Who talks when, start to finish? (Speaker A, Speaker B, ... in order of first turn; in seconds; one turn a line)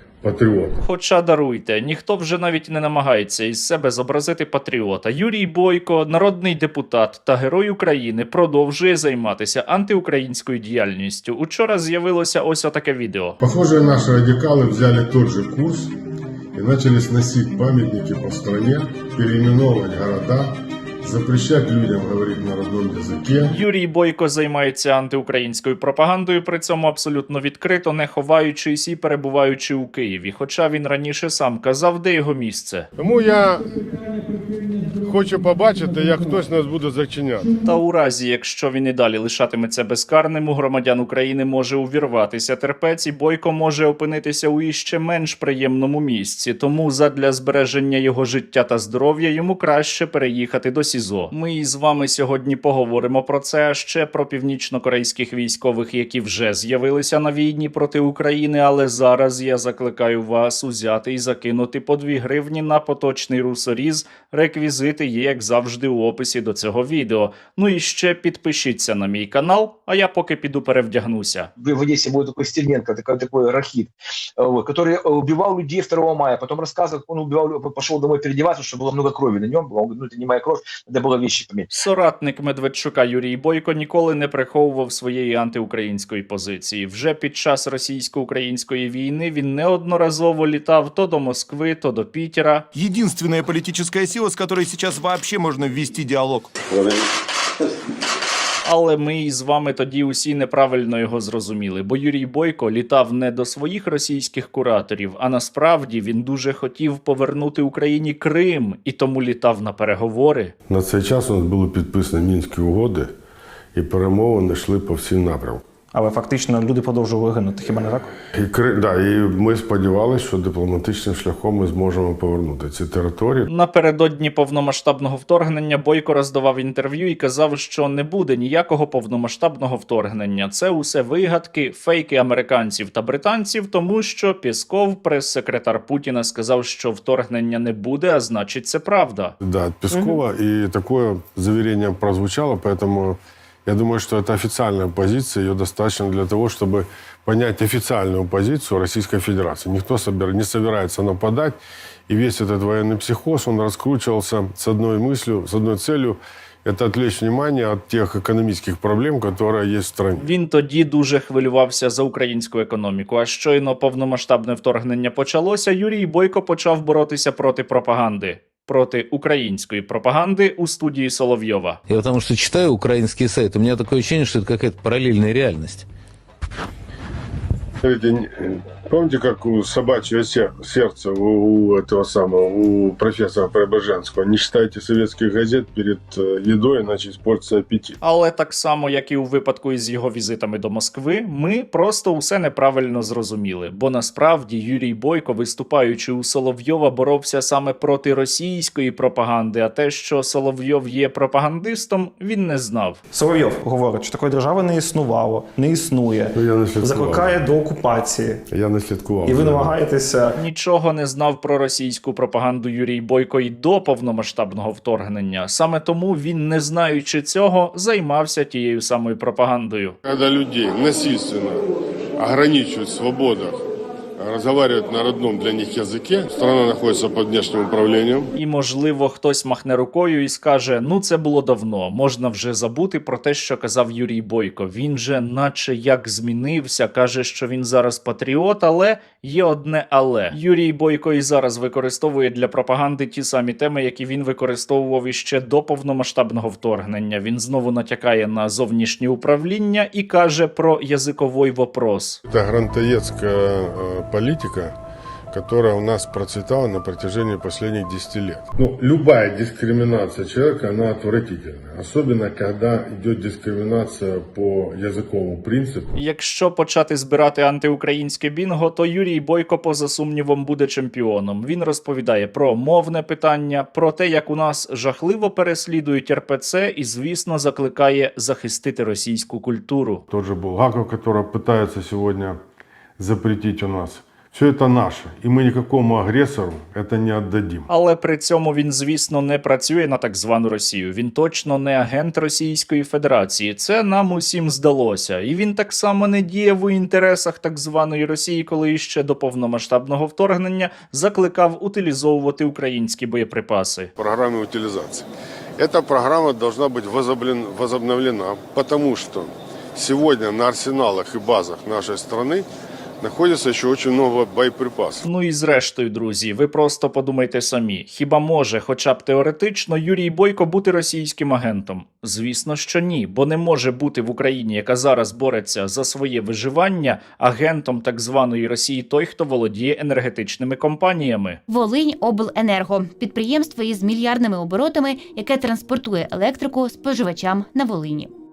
Speaker A: 0.2-0.8
Speaker B: 0.8-13.4
Speaker A: 13.4-15.9
Speaker A: 16.5-23.5
Speaker B: 23.5-32.9
Speaker A: 33.0-34.2
Speaker A: 34.9-37.5
Speaker B: 37.6-71.5
Speaker C: 71.6-81.7
Speaker B: 81.7-92.6
Speaker D: 92.7-96.5
Speaker B: 98.6-110.5
Speaker A: 110.7-113.1
Speaker A: 113.7-115.6
Speaker E: 115.9-118.1
Speaker A: 118.3-123.5
Speaker B: 123.5-139.3
Speaker A: 139.4-160.2
Speaker B: 160.2-171.8
Speaker F: 171.9-175.8
Speaker A: 177.8-188.0
Speaker B: 188.0-203.0
Speaker E: 203.1-208.4
Speaker A: 206.3-207.4
Speaker A: 208.5-209.8
Speaker E: 209.2-210.3
Speaker B: 210.3-220.0
Speaker A: 220.0-221.6
Speaker A: 222.2-223.6
Speaker A: 224.2-228.3
Speaker B: 228.3-252.2
Speaker A: 252.2-254.7
Speaker A: 255.3-265.9
Speaker B: 265.9-280.0
Speaker A: 280.1-282.4
Speaker A: 283.0-287.7
Speaker B: 287.7-303.9
Speaker A: 304.0-305.1
Speaker A: 305.6-312.5
Speaker A: 313.0-315.0
Speaker B: 315.0-331.4
Speaker G: 331.5-338.1